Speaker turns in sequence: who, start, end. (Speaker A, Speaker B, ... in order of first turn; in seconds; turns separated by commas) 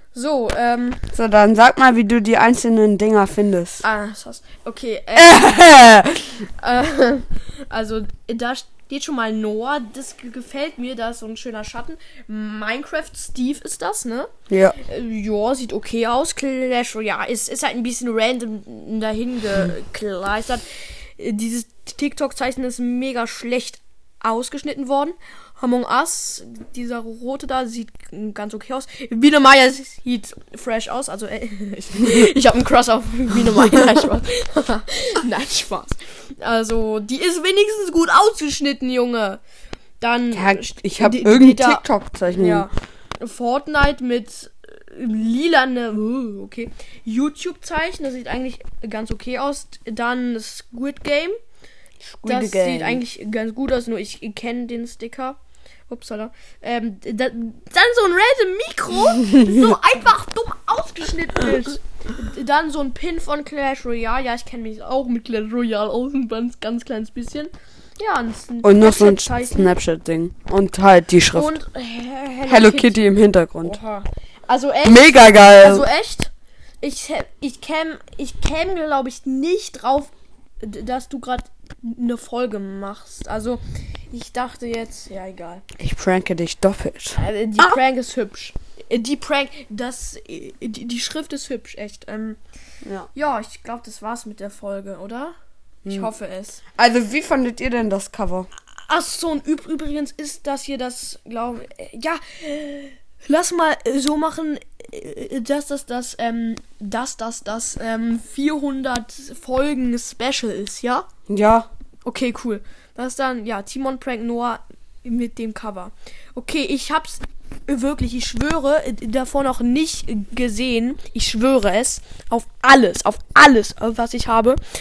Speaker A: 0.1-1.1, Speaker B: 1.1-3.8, Speaker A: 3.8-20.6, Speaker B: 5.2-6.2, Speaker B: 14.5-14.8, Speaker A: 21.2-39.4, Speaker A: 40.0-51.4, Speaker B: 40.3-42.7, Speaker B: 52.0-53.0, Speaker A: 52.2-55.4, Speaker A: 55.9-69.7, Speaker B: 68.6-71.6, Speaker A: 71.3-73.0, Speaker B: 72.5-73.8, Speaker A: 73.6-76.3, Speaker B: 74.8-75.9, Speaker A: 76.8-85.6, Speaker B: 85.8-87.8, Speaker A: 87.2-92.4, Speaker B: 92.8-93.1, Speaker A: 93.2-95.3, Speaker A: 95.9-96.6, Speaker B: 96.8-98.5, Speaker A: 98.9-111.1, Speaker B: 111.3-111.7, Speaker A: 112.0-124.6